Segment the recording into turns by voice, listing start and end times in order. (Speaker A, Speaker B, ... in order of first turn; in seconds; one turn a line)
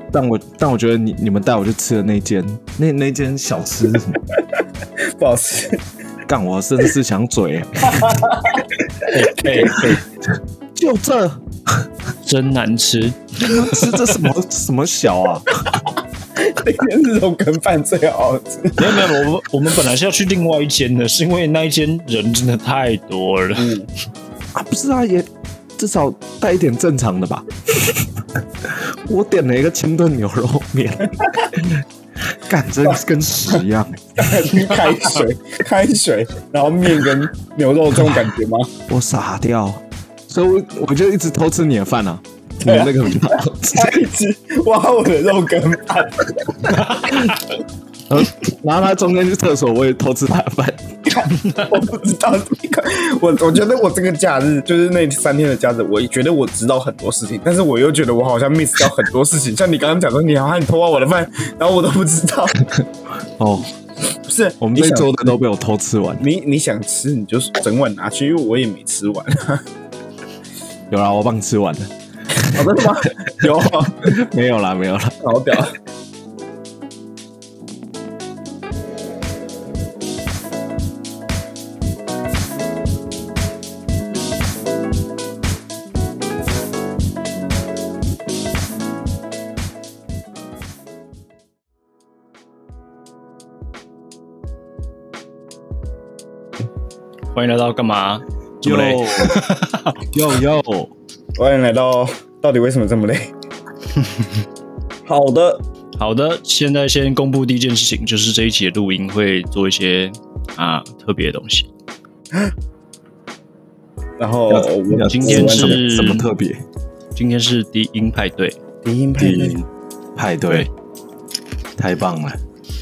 Speaker A: 0.1-4.2
Speaker B: 5.2-5.8
Speaker A: 6.3-8.2
Speaker B: 7.9-10.0
Speaker C: 9.1-10.0
Speaker A: 9.6-10.0
Speaker A: 10.8-11.9
Speaker C: 12.2-14.0
Speaker A: 13.4-15.6
Speaker B: 16.4-19.3
Speaker C: 18.8-23.7
Speaker B: 23.6-23.9
Speaker A: 24.5-34.1
Speaker B: 34.2-38.7
Speaker A: 38.9-44.0
Speaker B: 42.7-47.2
Speaker C: 46.7-47.3
Speaker A: 48.1-51.2
Speaker B: 51.1-62.7
Speaker A: 63.4-63.7
Speaker B: 64.3-65.4
Speaker A: 64.6-66.3
Speaker B: 66.2-69.6
Speaker A: 70.9-75.6
Speaker B: 72.4-74.2
Speaker B: 75.2-75.8
Speaker C: 97.3-100.0
Speaker A: 98.6-99.4
Speaker A: 100.1-100.9
Speaker B: 101.4-103.3
Speaker B: 105.1-105.6
Speaker C: 106.0-111.7
Speaker B: 114.2-115.9
Speaker A: 114.5-116.6
Speaker C: 115.0-116.3
Speaker C: 117.2-118.6
Speaker B: 118.8-119.6
Speaker A: 119.2-120.7
Speaker A: 121.8-122.4